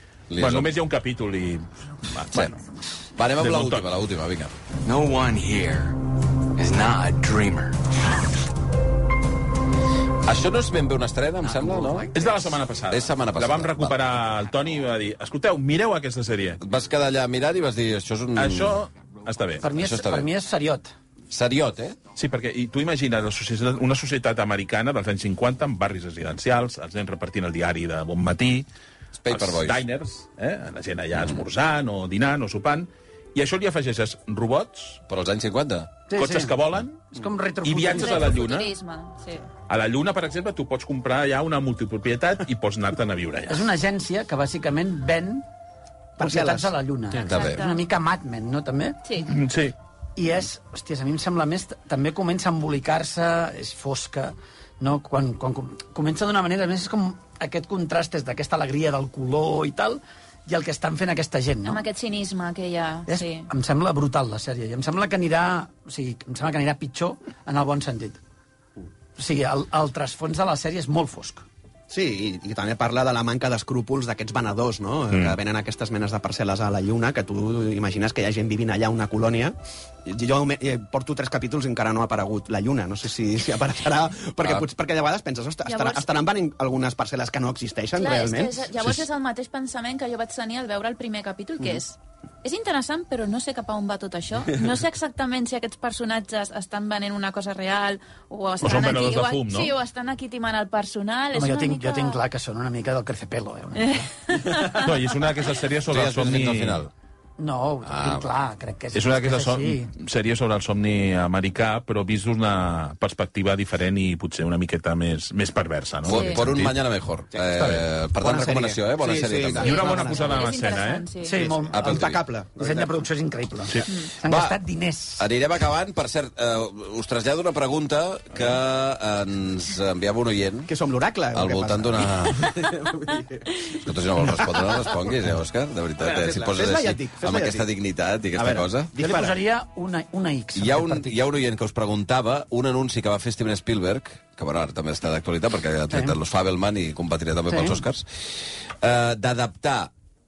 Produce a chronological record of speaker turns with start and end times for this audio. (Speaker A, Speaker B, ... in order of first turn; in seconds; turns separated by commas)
Speaker A: 0.3-0.7, Speaker B: 0.3-2.6, Speaker A: 2.3-2.6, Speaker A: 3.1-4.5, Speaker B: 3.4-3.9, Speaker C: 4.8-6.0, Speaker C: 6.5-7.8, Speaker A: 10.2-12.3, Speaker C: 11.4-12.1, Speaker B: 12.1-16.6, Speaker A: 12.9-14.1, Speaker A: 16.6-18.8, Speaker B: 18.4-19.7, Speaker D: 19.6-20.9, Speaker A: 19.7-20.3, Speaker A: 21.3-22.0, Speaker B: 22.1-28.6, Speaker A: 29.2-29.8, Speaker B: 29.3-35.0, Speaker A: 35.1-35.9, Speaker D: 36.1-36.5, Speaker B: 36.1-37.1, Speaker D: 37.1-38.4, Speaker B: 37.6-38.7, Speaker E: 37.9-39.5, Speaker B: 39.7-43.7, Speaker D: 43.5-45.4, Speaker F: 46.2-46.7, Speaker D: 46.2-49.0, Speaker A: 47.2-47.6, Speaker E: 47.3-47.8, Speaker E: 49.0-49.3, Speaker B: 49.3-49.8, Speaker D: 50.1-61.8, Speaker E: 61.6-63.5, Speaker D: 63.1-68.2, Speaker D: 69.2-71.4, Speaker F: 71.9-88.7, Speaker B: 75.1-75.4, Speaker E: 85.6-86.0, Speaker E: 88.0-102.2, Speaker B: 98.6-99.7, Speaker D: 101.3-104.1, Speaker E: 103.8-104.8, Speaker B: 104.7-106.9, Speaker A: 105.9-106.9, Speaker D: 107.4-109.9, Speaker A: 107.8-108.3, Speaker B: 108.9-116.8, Speaker A: 116.0-119.8, Speaker E: 116.1-116.4, Speaker F: 117.3-120.3, Speaker B: 119.6-121.1, Speaker E: 119.6-121.4, Speaker D: 119.7-120.4, Speaker D: 121.2-125.3, Speaker F: 121.3-122.9, Speaker A: 121.7-122.2, Speaker A: 124.2-124.6, Speaker A: 125.2-130.7, Speaker F: 130.7-133.7, Speaker A: 131.3-132.6, Speaker A: 133.7-138.9, Speaker F: 134.3-134.6, Speaker F: 136.0-137.7, Speaker F: 138.3-139.4, Speaker D: 139.0-141.1, Speaker A: 140.5-149.9, Speaker D: 145.9-146.2, Speaker D: 147.5-147.8